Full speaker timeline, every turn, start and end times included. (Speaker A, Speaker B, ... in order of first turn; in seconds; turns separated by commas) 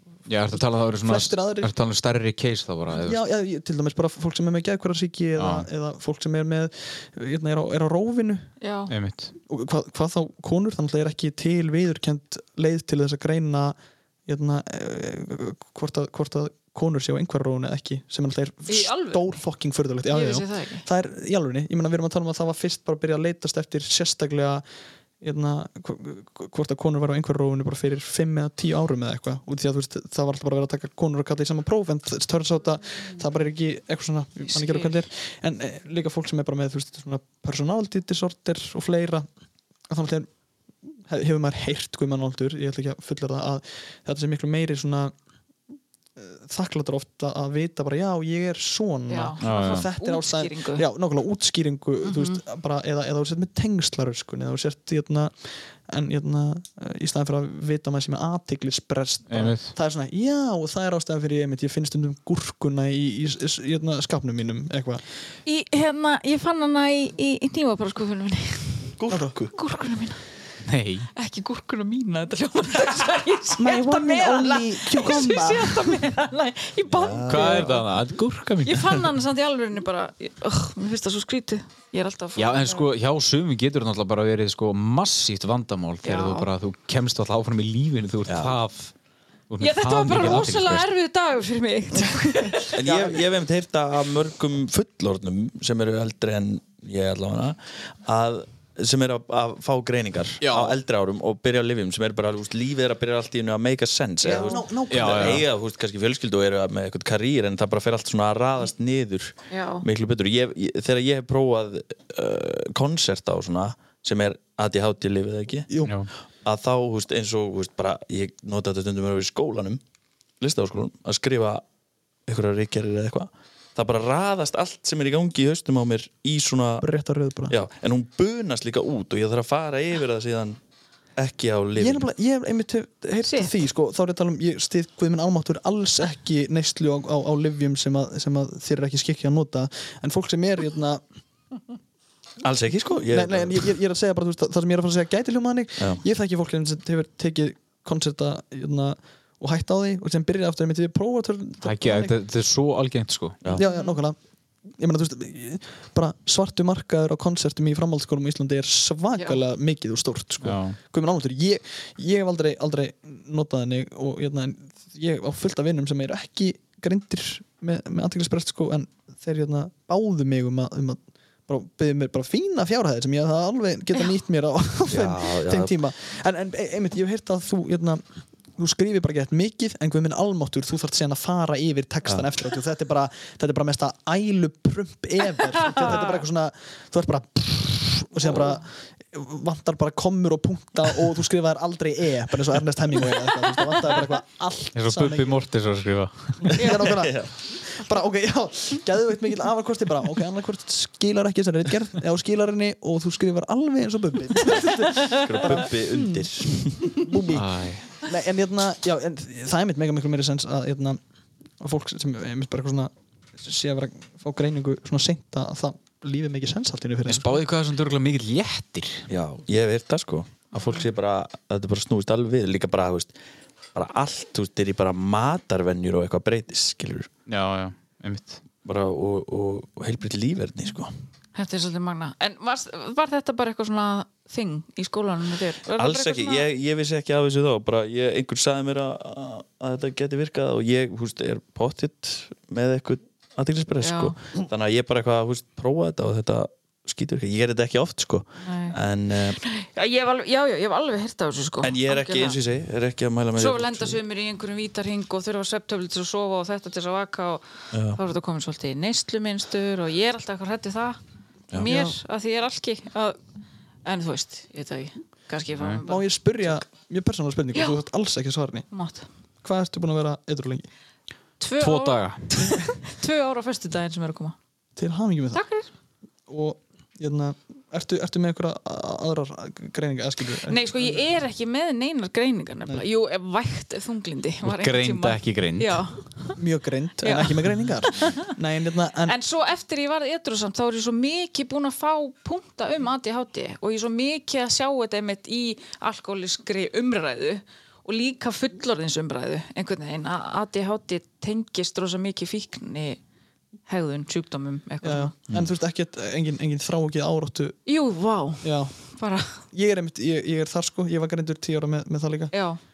Speaker A: 0.3-3.2, Speaker B: 0.6-1.7, Speaker B: 2.9-8.5, Speaker A: 5.4-5.7, Speaker C: 8.6-8.9, Speaker A: 8.9-9.3, Speaker B: 9.5-24.6, Speaker C: 18.7-19.3, Speaker C: 20.1-20.8, Speaker B: 25.2-39.2, Speaker C: 34.4-35.0, Speaker B: 39.9-40.3, Speaker B: 40.9-45.1, Speaker B: 46.2-65.0, Speaker C: 49.1-50.9, Speaker A: 49.4-49.9, Speaker C: 52.0-52.4, Speaker A: 59.3-59.7, Speaker C: 65.5-69.0, Speaker D: 69.0-69.5, Speaker B: 69.1-69.3, Speaker C: 69.5-70.2, Speaker A: 70.6-71.1, Speaker C: 71.1-77.8, Speaker B: 73.6-75.9, Speaker D: 76.9-77.7, Speaker A: 77.3-79.1, Speaker C: 78.6-82.8, Speaker A: 82.3-88.9, Speaker C: 86.0-86.5, Speaker D: 88.2-88.5, Speaker A: 89.5-90.9, Speaker C: 89.6-92.8, Speaker D: 92.7-115.7, Speaker B: 92.8-93.2, Speaker A: 100.4-100.8, Speaker B: 104.2-105.4, Speaker C: 104.3-104.6, Speaker A: 104.9-105.4, Speaker C: 109.5-109.8, Speaker B: 115.7-116.0, Speaker A: 115.8-116.1, Speaker D: 116.4-119.8, Speaker D: 120.4-121.6, Speaker D: 122.2-126.8, Speaker B: 126.8-127.6, Speaker D: 127.5-130.6, Speaker D: 131.2-132.1, Speaker B: 131.8-141.0, Speaker C: 133.2-133.5, Speaker D: 142.4-143.7, Speaker B: 143.1-152.2, Speaker A: 151.6-153.4, Speaker B: 153.5-154.2, Speaker C: 153.7-154.0, Speaker B: 154.8-178.0, Speaker A: 160.4-160.8, Speaker D: 174.9-175.8, Speaker B: 178.6-195.4, Speaker C: 185.7-186.2, Speaker C: 188.3-188.6, Speaker A: 194.7-196.5, Speaker B: 196.4-206.1, Speaker D: 196.9-197.3, Speaker D: 205.1-207.0, Speaker B: 206.9-211.0, Speaker A: 207.3-207.8, Speaker B: 211.6-217.4, Speaker A: 217.1-219.1, Speaker D: 219.1-223.2, Speaker D: 223.7-227.1, Speaker A: 227.3-228.4, Speaker D: 228.6-230.9, Speaker C: 231.3-236.4, Speaker D: 235.7-249.4, Speaker C: 243.8-244.2, Speaker C: 248.4-248.8, Speaker C: 249.4-252.4, Speaker D: 251.6-254.0, Speaker C: 253.3-261.0, Speaker D: 257.7-258.0, Speaker C: 261.5-263.2, Speaker B: 261.6-262.0, Speaker C: 263.8-266.6, Speaker B: 265.8-268.7, Speaker C: 267.5-267.8, Speaker C: 268.7-269.1, Speaker B: 269.4-270.7, Speaker C: 271.4-274.3, Speaker A: 271.6-272.5, Speaker B: 274.8-275.4, Speaker C: 275.3-275.7, Speaker B: 276.3-281.0, Speaker C: 280.4-286.4, Speaker A: 284.4-285.8, Speaker B: 286.4-289.2, Speaker C: 287.0-288.3, Speaker C: 289.0-303.0, Speaker C: 303.7-305.1, Speaker B: 304.8-307.6, Speaker C: 307.6-309.4, Speaker B: 308.4-308.8, Speaker B: 309.5-312.3, Speaker C: 312.3-312.6